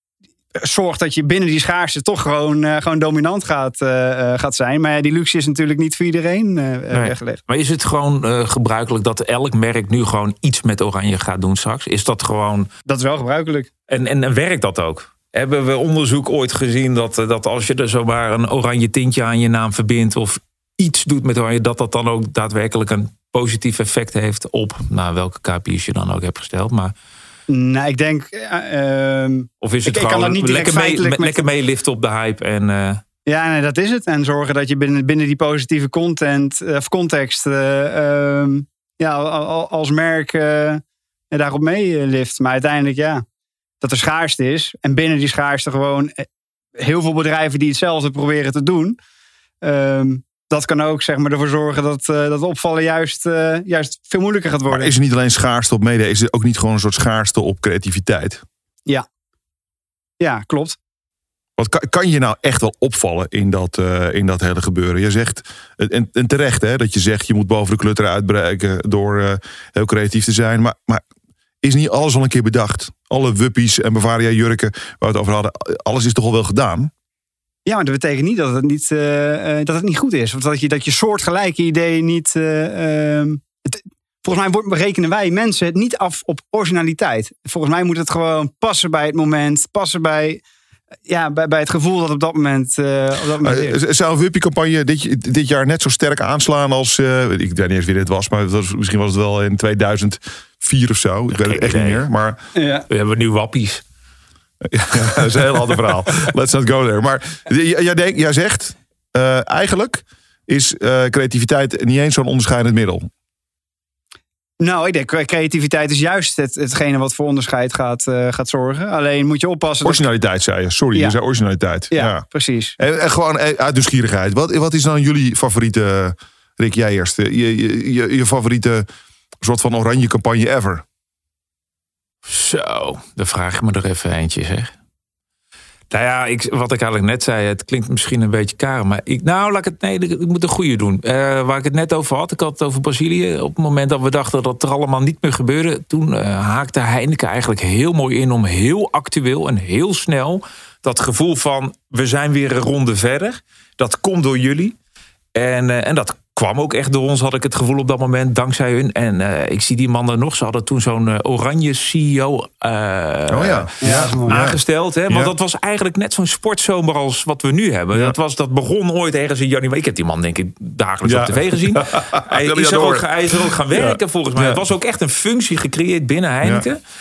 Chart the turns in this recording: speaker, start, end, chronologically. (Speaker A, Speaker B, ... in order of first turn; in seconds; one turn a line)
Speaker A: 0.6-7.4
Speaker B: 6.9-12.7
Speaker A: 12.9-13.7
Speaker B: 13.9-26.9
Speaker A: 27.5-31.4
Speaker B: 29.6-33.0
Speaker A: 33.3-43.2
Speaker A: 43.8-46.3
Speaker A: 46.8-49.0
Speaker A: 49.6-54.9
Speaker C: 54.7-58.4
Speaker A: 60.2-60.8
Speaker C: 61.6-71.0
Speaker C: 71.6-76.9
Speaker A: 77.7-90.4
Speaker A: 91.1-93.8
Speaker C: 93.4-102.4
Speaker B: 101.3-102.1
Speaker A: 102.6-102.9
Speaker B: 102.9-103.8
Speaker C: 104.7-113.1
Speaker A: 114.6-120.0
Speaker C: 119.8-122.2
Speaker A: 121.9-122.8
Speaker C: 122.8-128.9
Speaker C: 129.4-130.8
Speaker B: 132.2-134.7
Speaker B: 135.9-154.8
Speaker B: 155.3-163.8
Speaker C: 163.3-165.3
Speaker A: 163.8-164.4
Speaker B: 164.3-176.8
Speaker C: 171.0-174.6